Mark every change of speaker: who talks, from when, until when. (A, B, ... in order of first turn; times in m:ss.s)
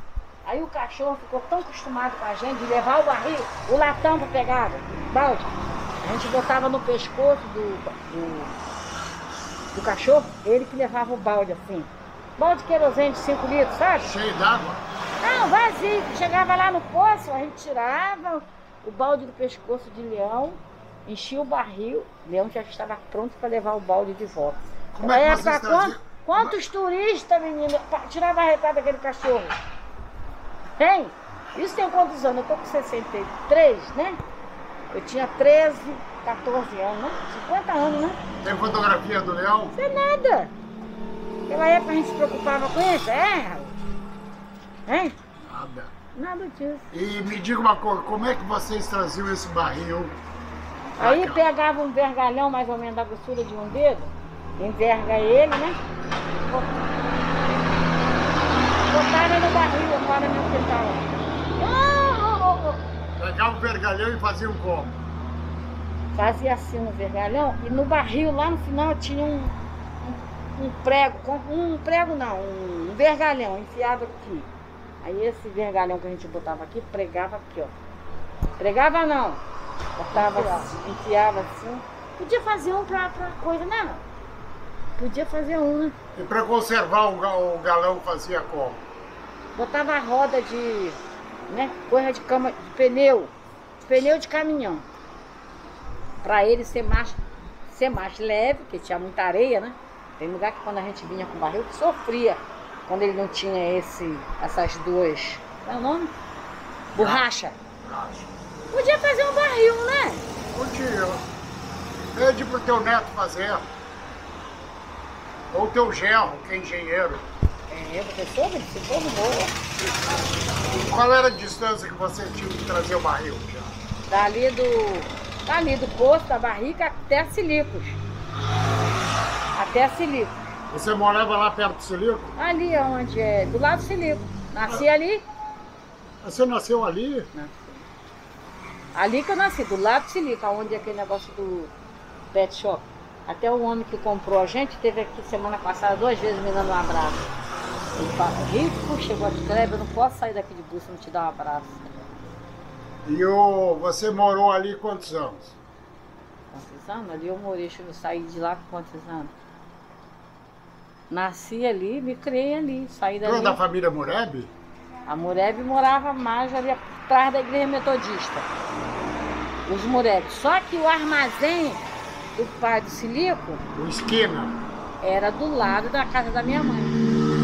0:00.4-0:05.5 A
0:06.0-0:08.5 A
0:09.7-0:14.1 A
0:14.0-0:14.8 B
0:15.2-0:29.6 A
0:24.9-0:26.5 B
0:30.8-0:34.2 A
0:34.9-0:38.2 A
0:38.4-0:39.8 B
0:39.7-0:40.5 A
0:41.5-0:43.8 A
0:44.9-0:45.1 A
0:45.4-0:45.9 B
0:46.1-0:46.9 A
0:46.9-0:50.2 B
0:51.0-0:51.5 B
0:51.0-0:55.8 A
0:58.9-1:02.8 A
1:03.2-1:05.0 B
1:06.1-1:09.6 A
1:10.1-1:14.5 A
1:15.0-1:17.7 A
1:18.6-1:19.4 A
1:20.0-1:24.0 A
1:25.0-1:26.0 A
1:26.2-1:28.8 B
1:29.6-1:33.3 A
1:33.8-1:34.9 A
1:36.2-1:46.1 A
1:47.0-1:47.2 B
1:47.0-1:47.6 A
1:47.8-1:48.3 B
1:48.7-1:50.2 A
1:50.5-1:51.2 B
1:52.1-1:53.7 B
1:55.5-1:57.3 B
1:57.7-1:59.6 A
2:00.6-2:03.8 B
2:04.1-2:08.0 A
2:09.6-2:10.4 A
2:10.7-2:12.3 B
2:12.4-2:15.3 A
2:16.2-2:17.3 B
2:17.3-2:17.9 A
2:19.0-2:21.7 A
2:22.3-2:27.3 A
2:28.0-2:31.9 A
2:33.0-2:35.6 B
2:36.5-2:39.3 A
2:41.1-2:43.6 A
2:43.2-2:44.5 B
2:45.1-2:48.5 A
2:49.7-2:51.8 A
2:52.4-2:53.6 A
2:53.7-2:54.6 B
2:55.0-2:57.0 A